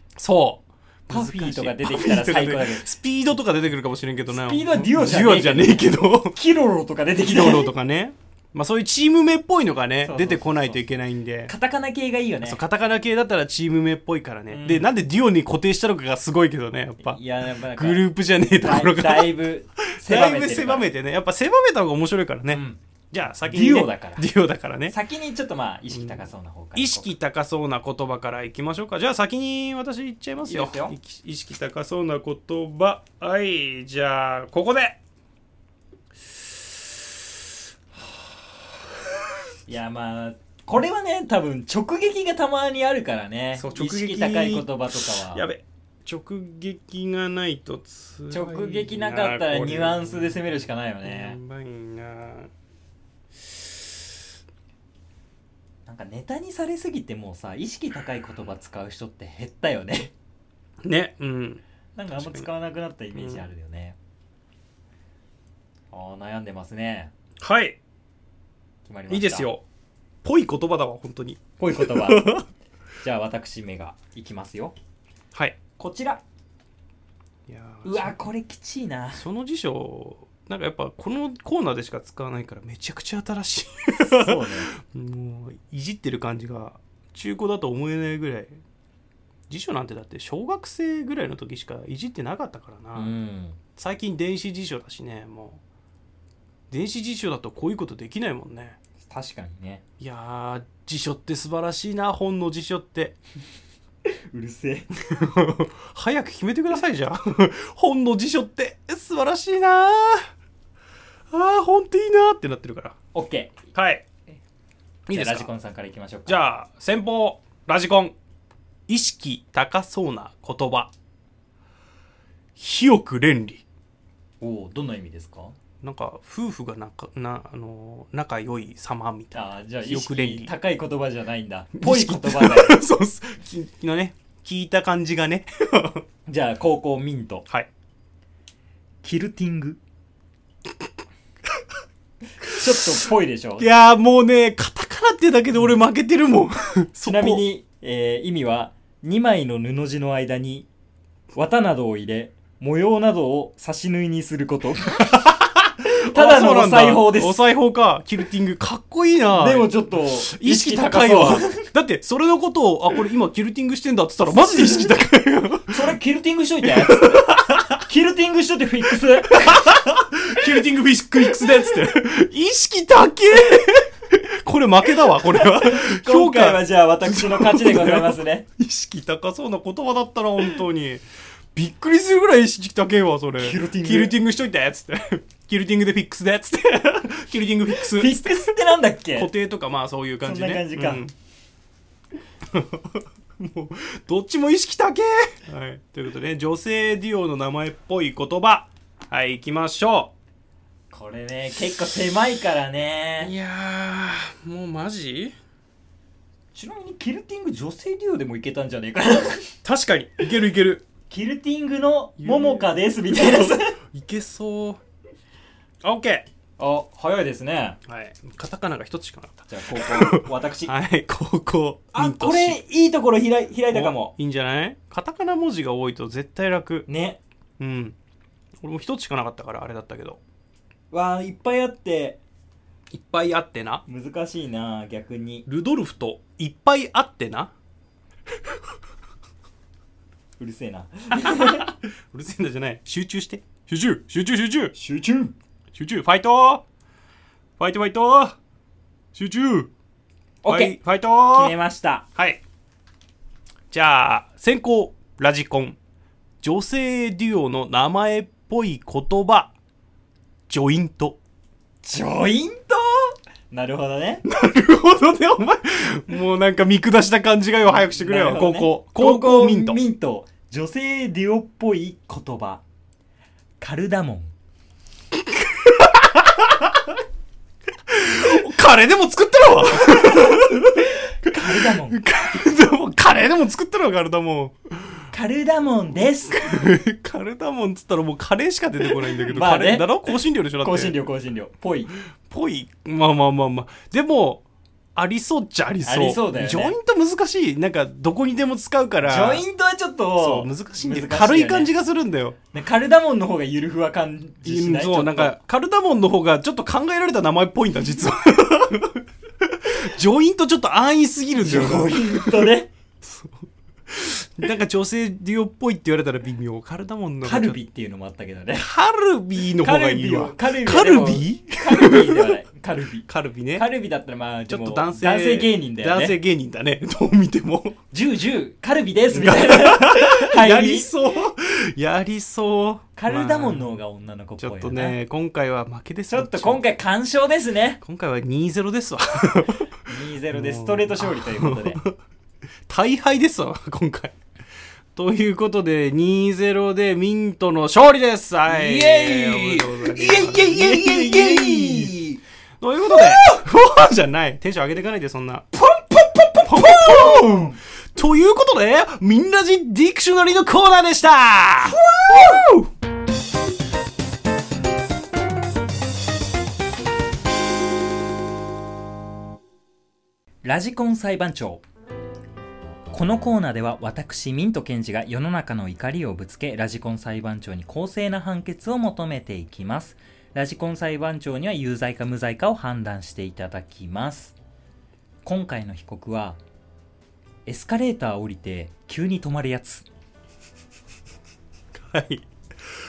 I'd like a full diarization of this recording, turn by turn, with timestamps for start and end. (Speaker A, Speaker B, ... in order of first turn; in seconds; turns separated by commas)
Speaker A: 0.1-6.4, Speaker B: 1.1-2.9, Speaker B: 4.3-7.7, Speaker A: 7.2-11.5, Speaker B: 10.0-10.8, Speaker B: 11.5-12.6, Speaker A: 12.4-17.2, Speaker B: 14.5-14.9, Speaker B: 17.0-20.9, Speaker A: 17.7-24.9, Speaker B: 22.5-22.8, Speaker B: 23.4-24.2, Speaker B: 24.9-27.1, Speaker A: 25.9-26.2, Speaker A: 26.7-35.0, Speaker B: 30.4-30.9, Speaker B: 39.7-45.5, Speaker A: 43.5-52.5, Speaker B: 48.3-51.4, Speaker B: 55.9-60.1, Speaker A: 60.8-61.6, Speaker B: 62.0-64.0, Speaker A: 62.2-62.5, Speaker A: 63.1-63.4, Speaker B: 65.9-67.1, Speaker A: 67.4-67.8, Speaker B: 68.8-69.5, Speaker A: 69.1-69.6, Speaker A: 70.2-72.5, Speaker B: 71.6-72.4, Speaker B: 73.0-74.8, Speaker A: 75.3-75.6, Speaker B: 75.8-76.2, Speaker A: 77.5-78.2, Speaker B: 77.8-79.2, Speaker A: 79.2-88.6, Speaker B: 84.0-84.7, Speaker A: 89.5-93.1, Speaker B: 92.9-93.6, Speaker A: 93.8-95.6, Speaker A: 96.7-98.8, Speaker B: 99.0-99.8, Speaker A: 100.0-103.2, Speaker B: 104.0-104.9, Speaker A: 105.0-110.3, Speaker A: 111.3-113.0, Speaker B: 113.1-113.7, Speaker A: 113.7-114.0, Speaker A: 115.0-115.5, Speaker B: 115.1-116.4, Speaker A: 116.3-118.1, Speaker A: 118.9-120.9, Speaker A: 122.5-123.6, Speaker B: 124.4-125.5, Speaker A: 125.8-130.5, Speaker B: 129.3-132.8, Speaker A: 131.8-136.0, Speaker B: 136.2-137.5, Speaker B: 139.0-139.8, Speaker B: 142.4-143.7, Speaker A: 143.6-147.4, Speaker B: 147.0-150.7, Speaker B: 151.3-157.4, Speaker A: 155.1-166.0, Speaker B: 159.3-161.7, Speaker B: 164.5-164.9, Speaker B: 165.7-170.5, Speaker A: 166.6-167.8, Speaker A: 169.3-181.0, Speaker B: 175.1-178.4, Speaker A: 181.5-188.5, Speaker B: 183.4-184.2, Speaker B: 187.8-189.3, Speaker A: 189.2-191.1, Speaker B: 190.2-191.1, Speaker A: 192.5-200.1, Speaker B: 200.9-203.3, Speaker A: 203.2-205.3, Speaker B: 206.5-209.6, Speaker A: 209.6-210.8, Speaker B: 211.1-213.8, Speaker A: 212.2-214.8, Speaker A: 215.8-216.2, Speaker B: 216.6-217.8, Speaker A: 217.9-222.6, Speaker B: 219.5-220.7, Speaker B: 221.9-224.1, Speaker A: 223.7-226.8, Speaker B: 226.9-227.2, Speaker A: 227.6-227.9, Speaker A: 228.6-230.2, Speaker B: 230.9-232.2, Speaker A: 232.9-233.8, Speaker B: 233.9-235.4, Speaker A: 235.5-237.5, Speaker B: 240.4-241.7, Speaker A: 241.2-244.7, Speaker B: 244.7-245.3, Speaker A: 245.7-246.6, Speaker A: 247.6-248.4, Speaker A: 249.1-249.7, Speaker B: 250.4-250.8, Speaker A: 250.4-251.5, Speaker B: 251.3-252.1, Speaker A: 253.7-255.8, Speaker A: 256.4-259.5, Speaker A: 260.5-261.2, Speaker B: 261.8-264.2, Speaker A: 264.2-269.8, Speaker B: 267.6-272.6, Speaker B: 273.6-274.3, Speaker A: 275.1-276.8, Speaker A: 277.9-285.0, Speaker B: 279.9-282.0, Speaker B: 285.1-286.7, Speaker A: 286.3-290.9, Speaker B: 289.1-291.9, Speaker A: 292.2-294.4, Speaker A: 294.9-299.4, Speaker B: 295.8-296.8, Speaker B: 299.0-301.7, Speaker A: 300.2-302.4, Speaker B: 302.5-305.4, Speaker A: 304.4-312.5, Speaker B: 311.4-312.7, Speaker A: 313.0-317.6, Speaker B: 317.2-318.7, Speaker A: 318.6-322.3, Speaker B: 319.6-326.1, Speaker A: 323.1-323.7, Speaker A: 324.5-327.8, Speaker B: 327.9-330.9, Speaker A: 329.1-333.7, Speaker B: 332.9-335.0, Speaker A: 334.4-336.6, Speaker B: 336.1-337.8, Speaker A: 337.8-339.7, Speaker B: 339.8-341.8, Speaker A: 340.3-341.9, Speaker A: 342.7-344.2, Speaker A: 344.9-352.0, Speaker B: 348.5-352.2, Speaker A: 352.6-355.4, Speaker B: 352.9-353.3, Speaker B: 355.6-357.6, Speaker A: 356.4-361.8, Speaker B: 361.6-362.7, Speaker B: 370.4-371.6, Speaker B: 372.9-384.4, Speaker B: 385.2-386.4, Speaker B: 387.4-389.9, Speaker A: 391.7-392.2